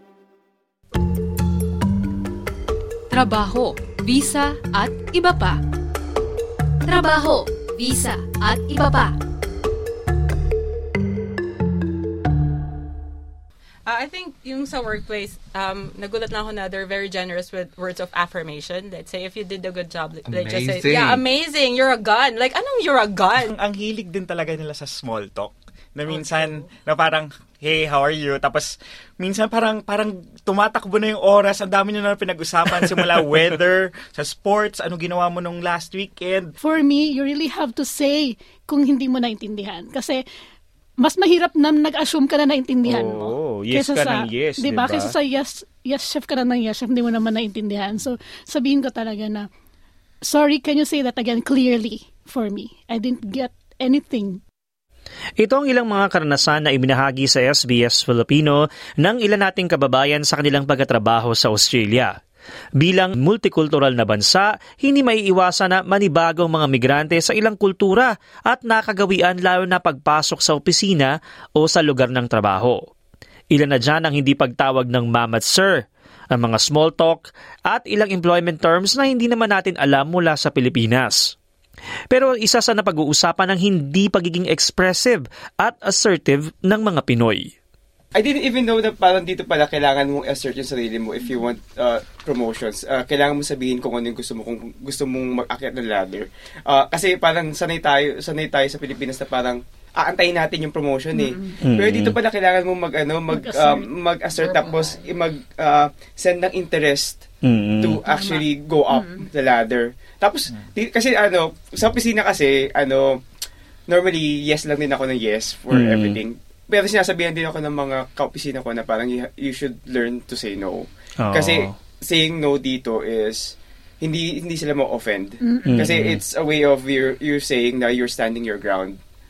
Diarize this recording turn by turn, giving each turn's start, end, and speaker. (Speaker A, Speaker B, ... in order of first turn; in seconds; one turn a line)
Speaker A: 3.1-5.6
Speaker A: 6.8-9.1
Speaker B: 13.8-23.6
Speaker C: 23.4-36.5
Speaker B: 26.1-26.7
Speaker D: 36.6-40.2
Speaker D: 41.0-49.5
Speaker E: 42.9-45.1
Speaker D: 50.2-54.4
Speaker E: 55.4-62.1
Speaker E: 62.8-72.8
Speaker E: 73.5-75.8
Speaker E: 76.3-81.3
Speaker E: 82.1-87.5
Speaker F: 88.2-107.2
Speaker E: 101.6-102.2
Speaker D: 103.3-103.9
Speaker E: 107.4-108.0
Speaker F: 107.8-113.1
Speaker F: 113.9-129.0
Speaker E: 115.7-116.2
Speaker E: 121.2-121.7
Speaker D: 125.4-125.8
Speaker E: 125.7-126.2